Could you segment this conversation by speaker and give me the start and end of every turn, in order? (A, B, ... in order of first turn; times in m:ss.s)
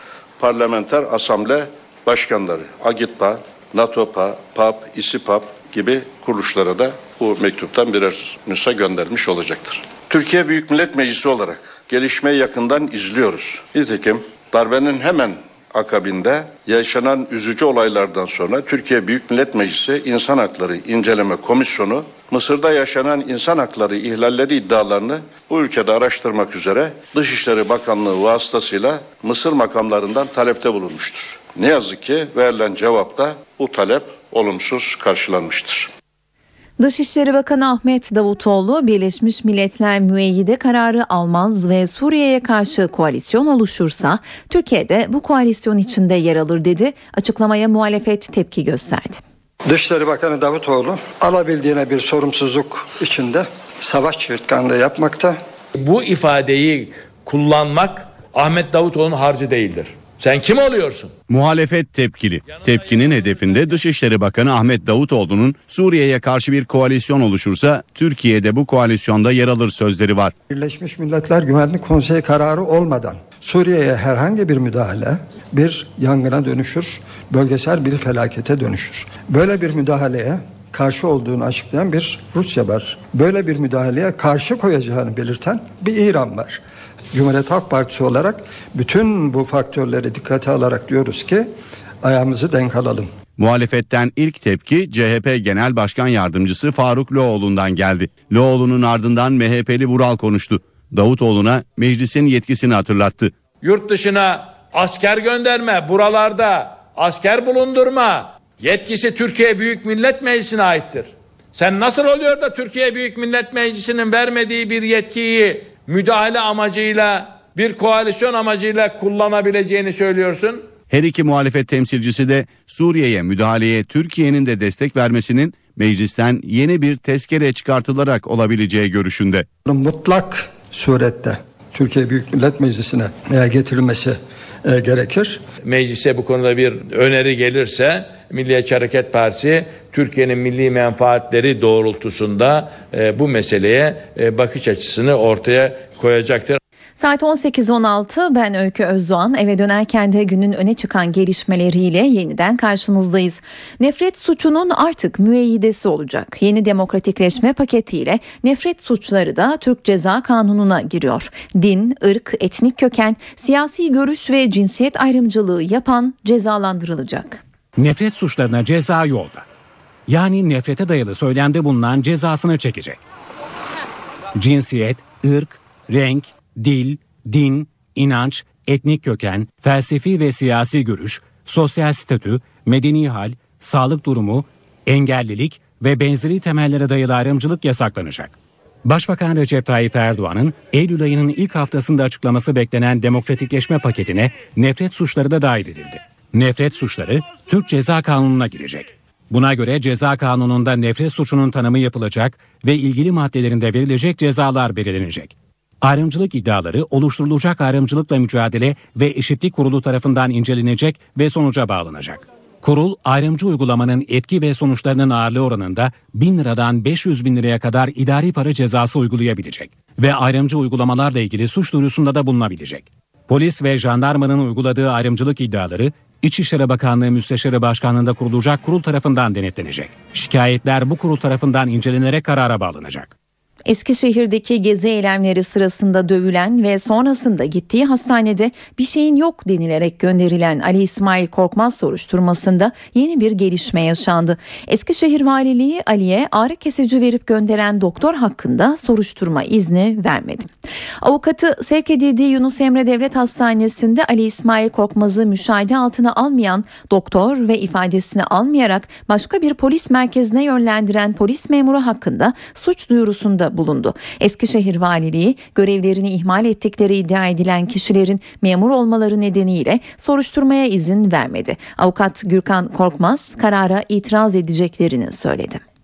0:00.4-0:35.9 A
0:36.8-0:49.2 B
0:49.6-0:55.4 C
0:55.8-1:01.1 D
1:01.3-1:10.3 E
1:10.5-1:26.6 C
1:27.1-1:31.5 C
1:32.0-1:33.1 C
1:33.4-1:43.3 E
1:43.6-2:00.6 D
2:00.9-2:09.5 E
2:09.6-2:15.4 C
2:15.6-2:26.6 D
2:27.0-2:47.4 B
2:47.8-2:49.4 F
2:50.1-2:53.0 F
2:54.4-3:08.3 F
3:08.8-3:53.1 F
3:53.6-4:10.5 B
4:11.0-4:35.6 B